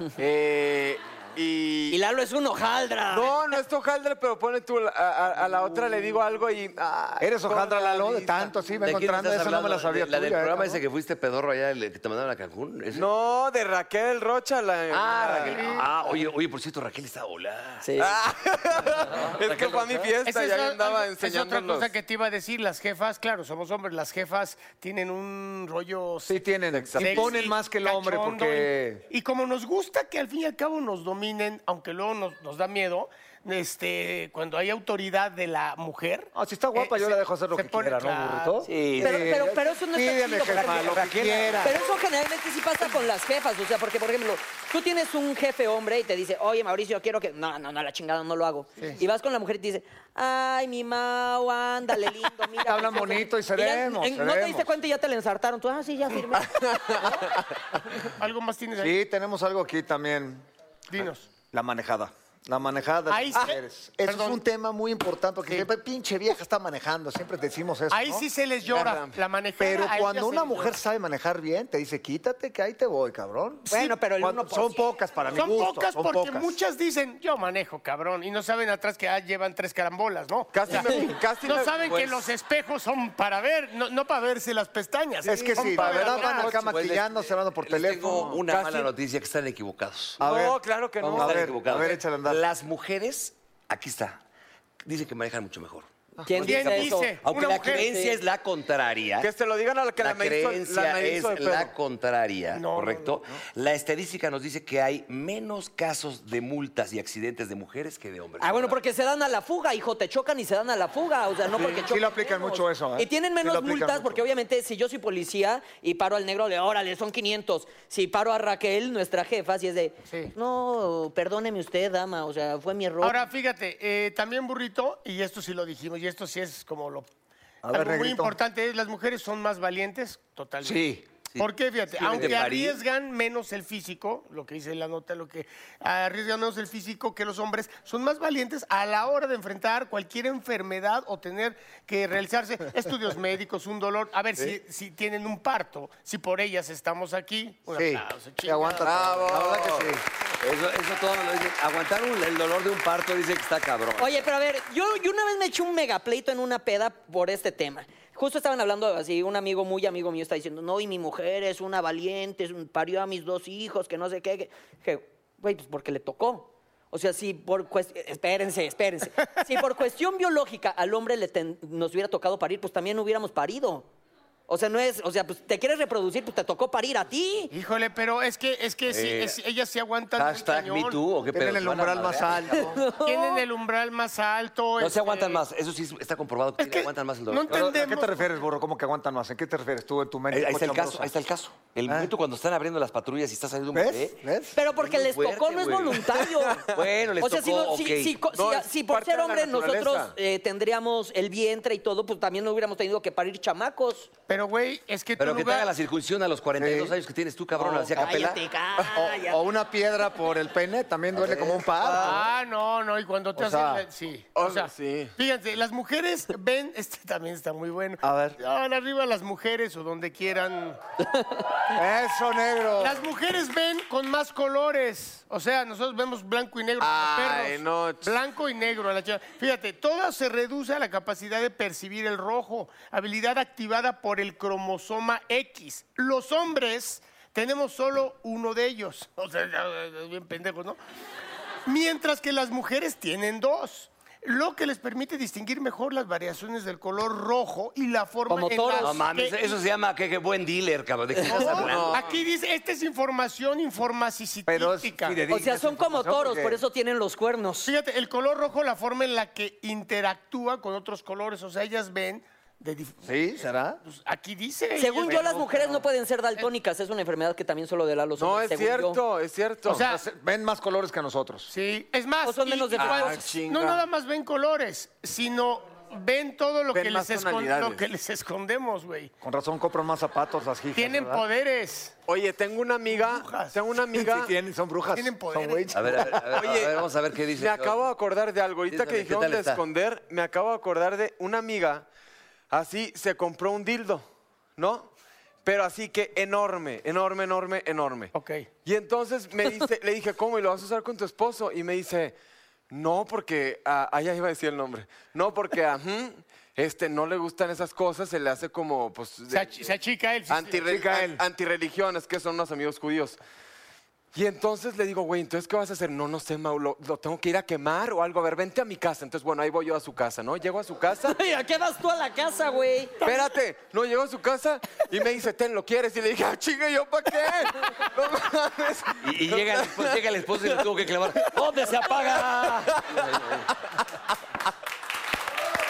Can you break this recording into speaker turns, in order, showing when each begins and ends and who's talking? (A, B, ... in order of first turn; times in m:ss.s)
0:00.2-0:02.0 A
0:01.9-0:03.6 B
0:03.1-0:08.5 A
0:07.2-0:10.8 C
0:08.8-0:13.1 D
0:12.9-0:15.8 A
0:14.9-0:17.9 D
0:15.5-0:15.8 E
0:17.8-0:18.1 B
0:18.0-0:21.9 A
0:19.1-0:20.1 D
0:20.2-0:26.4 E
0:26.3-0:29.0 C
0:26.7-0:27.4 A
0:27.0-0:38.6 E
0:36.4-0:41.8 C
0:38.7-0:39.3 D
0:39.0-0:57.3 B
0:40.8-0:41.6 D
0:52.6-0:54.7 C
0:56.4-0:57.4 A
0:58.2-0:59.0 E
0:58.8-1:00.4 C
1:00.9-1:01.3 E
1:01.5-1:08.3 C
1:03.1-1:04.4 E
1:07.9-1:10.7 E
1:08.7-1:09.2 A
1:09.6-1:16.6 C
1:13.7-1:14.8 B
1:15.3-1:26.7 E
1:20.5-1:21.9 A
1:20.7-1:21.0 B
1:21.9-1:22.3 D
1:25.2-1:28.4 C
1:25.4-1:26.3 A
1:26.0-1:30.2 D
1:28.1-1:28.9 A
1:30.2-1:30.6 C
1:30.2-1:31.9 A
1:31.1-1:34.2 D
1:31.1-1:32.4 C
1:34.8-1:39.3 D
1:36.2-1:38.2 B
1:36.4-1:37.9 E
1:39.2-1:41.7 A
1:40.0-1:48.8 D
1:42.5-1:43.2 E
1:48.4-2:03.2 B
1:51.5-1:54.2 C
2:03.0-2:07.1 E
2:07.6-2:08.4 C
2:07.7-2:29.0 E
2:10.6-2:12.8 D
2:27.7-2:30.0 C
2:28.8-2:29.9 A
2:30.4-2:34.3 D
2:34.0-2:53.9 B
2:54.5-2:57.5 B
2:57.5-3:01.0 E
2:58.9-2:59.4 D
3:00.2-3:02.7 D
3:01.3-3:02.8 C
3:02.6-3:03.4 B
3:03.0-3:05.4 E
3:04.8-3:07.8 D
3:06.6-3:08.3 E
3:07.5-3:11.1 C
3:10.3-3:14.2 D
3:11.9-3:12.1 C
3:13.7-3:14.6 C
3:14.6-3:16.7 B
3:14.8-3:18.2 D
3:17.2-3:24.1 B
3:18.3-3:20.1 A
3:24.3-3:25.7 E
3:25.2-3:28.4 D
3:26.6-3:27.0 C
3:28.0-3:29.4 B
3:29.0-3:32.2 C
3:31.1-3:31.6 D
3:32.0-3:40.8 E
3:33.4-3:33.8 C
3:34.4-3:35.2 A
3:38.0-3:38.4 C
3:41.7-3:43.1 C
3:42.8-4:00.8 E
3:46.8-3:48.1 A
4:01.7-4:09.6 E
4:08.3-4:09.0 B
4:08.8-4:12.1 D
4:11.2-4:15.2 E
4:11.5-4:12.2 A
4:14.5-4:16.6 C
4:15.3-4:17.7 B
4:17.6-4:23.1 E
4:23.0-4:23.8 C
4:23.8-4:25.8 E
4:24.8-4:29.0 B
4:28.2-4:29.9 A
4:29.7-4:30.0 E
4:29.9-4:31.5 C
4:31.5-4:39.1 E
4:32.2-4:33.3 B
4:32.8-4:33.8 A
4:36.7-4:37.8 A
4:39.2-4:41.2 C
4:40.8-4:42.0 E
4:42.1-4:44.3 A
4:42.9-4:43.6 E
4:43.9-4:46.5 C
4:44.9-4:46.0 E
4:45.7-4:47.9 D
4:46.4-4:51.9 A
4:48.7-4:49.6 D
4:52.5-4:54.0 A
4:54.6-4:54.9 A
4:55.4-4:58.1 A
4:58.1-4:58.5 E
4:58.6-5:02.2 A
5:02.7-5:09.7 A
5:09.3-5:10.7 E
5:10.3-5:13.2 A
5:10.7-5:11.2 C
5:14.1-5:21.2 A
5:21.1-5:23.1 B
5:23.0-5:30.6 A
5:29.0-5:33.5 D
5:31.2-5:33.2 A